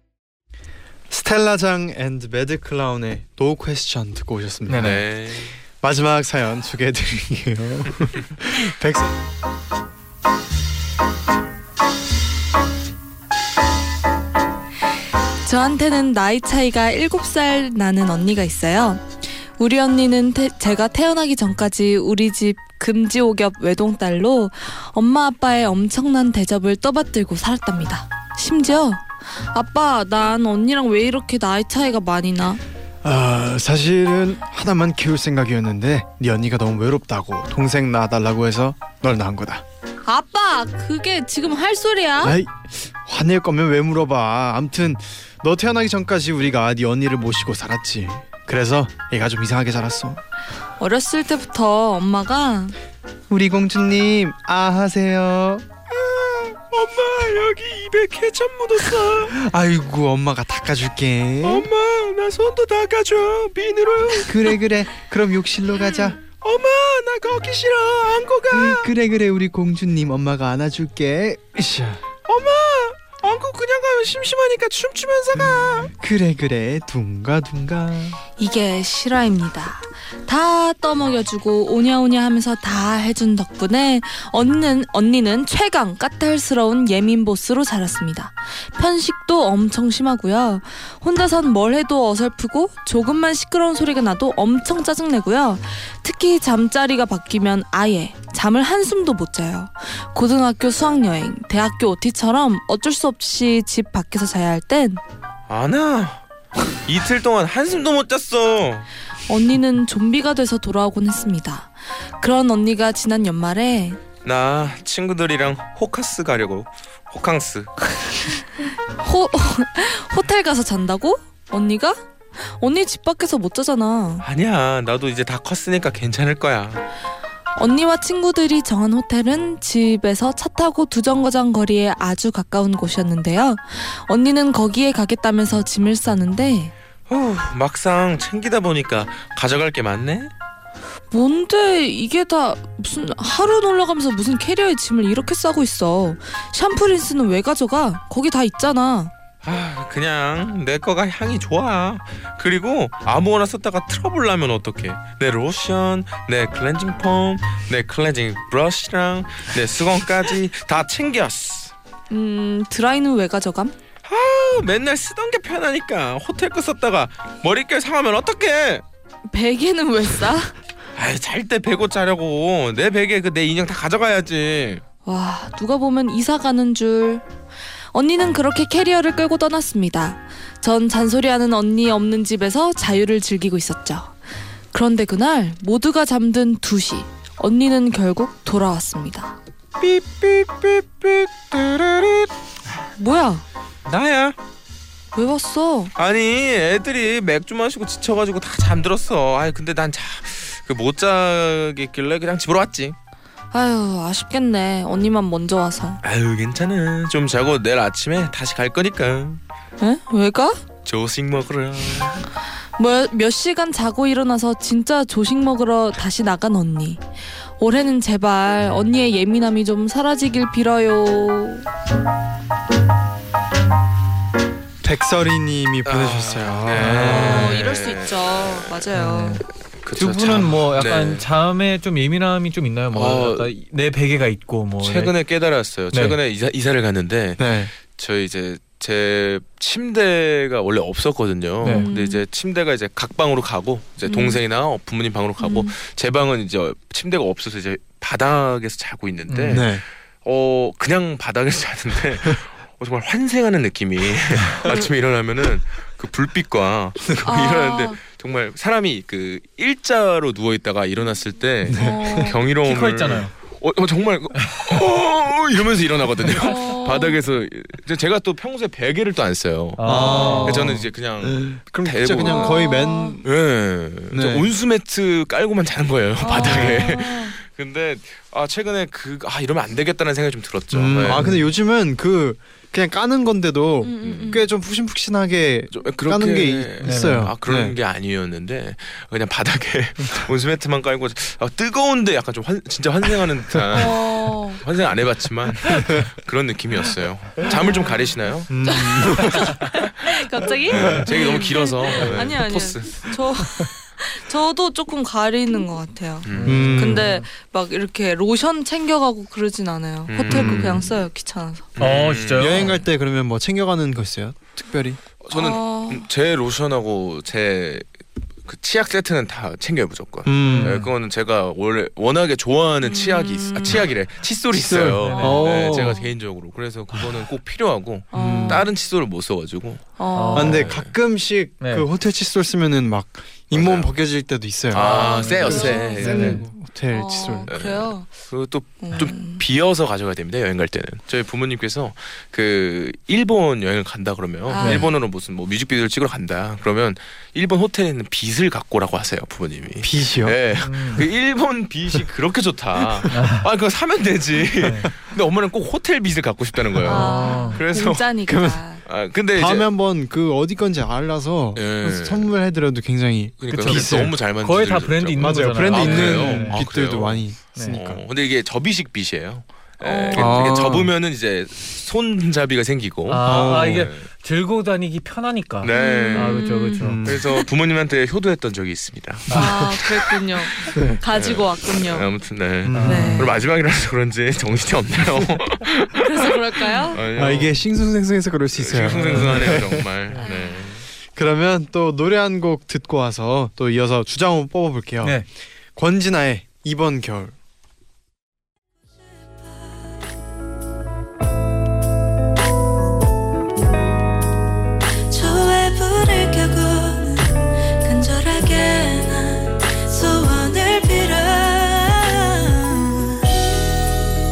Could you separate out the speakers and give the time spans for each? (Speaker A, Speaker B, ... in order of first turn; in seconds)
Speaker A: 1.1-5.0, 5.8-9.1, 33.0-39.6, 42.2-50.2, 53.3-55.7, 59.3-61.7, 64.2-66.2, 68.5-72.1, 75.9-78.2, 224.8-227.5, 237.4-237.7, 249.5-249.8, 261.6-262.3, 269.8-273.3, 274.1-274.5, 276.4-276.9, 280.7-287.8, 298.5-299.6, 300.8-301.1, 306.4-307.0, 310.3-310.8, 312.4-315.0, 320.2-320.8, 324.5-326.0, 328.1-328.7, 330.3-337.5, 349.8-350.5, 358.2-358.6, 359.3-364.2, 365.2-368.0, 370.1-370.9, 376.8-377.2, 380.7-381.0, 382.6-383.2, 387.1-389.8, 391.1-397.3
Speaker B: 4.7-5.0, 228.9-235.1, 235.9-236.2, 241.6-241.9, 249.3-249.7, 262.6-263.3, 269.8-270.7, 281.1-281.5, 286.8-287.3, 306.4-307.2, 311.8-312.8, 320.4-320.9, 325.0-325.9, 330.1-330.7, 331.6-331.9, 335.4-336.4, 344.6-344.9, 350.6-351.0, 353.1-353.4, 354.6-354.9, 356.9-357.6, 363.5-366.6, 373.1-377.0, 382.7-383.3, 389.0-390.2, 395.0-395.3
Speaker C: 4.8-5.5, 55.9-59.3, 61.4-64.6, 65.9-68.9, 72.2-75.9, 105.5-106.2, 106.8-108.9, 114.2-117.7, 124.2-126.8, 137.1-140.3, 149.4-161.7, 164.1-168.8, 170.9-174.8, 189.8-192.3, 193.8-194.4, 195.9-202.9, 206.0-209.4, 210.8-212.2, 225.8-228.8, 229.8-231.3, 232.9-233.5, 234.8-272.6, 273.2-281.3, 284.0-284.4, 285.7-298.5, 300.7-303.1, 306.2-306.9, 310.1-310.9, 311.8-312.7, 315.2-317.9, 318.4-330.9, 333.5-333.9, 334.7-336.4, 337.5-358.1, 358.8-359.7, 361.6-362.3, 363.4-374.1, 375.6-376.4, 377.0-387.5, 388.5-390.8
Speaker D: 15.4-19.0, 19.6-32.6, 40.0-42.4, 50.8-52.7, 78.4-105.0, 109.3-114.0, 118.0-118.4, 119.0-124.2, 127.5-136.7, 141.1-149.1, 162.1-163.7, 169.3-170.5, 175.0-177.2, 177.9-184.1, 184.7-189.4, 193.0-193.4, 195.1-195.9, 203.5-206.0, 209.8-210.6, 212.8-217.0, 217.6-221.7, 227.0-229.4, 241.6-242.2, 244.1-244.4, 245.4-245.7, 257.2-258.0, 261.7-262.4, 266.4-267.2, 269.9-270.6, 272.2-273.2, 276.2-277.3, 283.8-284.4, 293.7-294.6, 297.5-297.9, 298.6-311.7, 315.3-316.0, 322.8-323.9, 325.1-326.1, 328.1-328.6, 330.0-330.7, 334.8-336.3, 336.9-338.1, 338.8-339.4, 344.5-344.9, 356.9-358.8, 369.8-370.6, 375.7-377.4, 379.3-382.1, 382.8-383.3, 385.9-387.0, 390.2-390.6, 405.1-413.2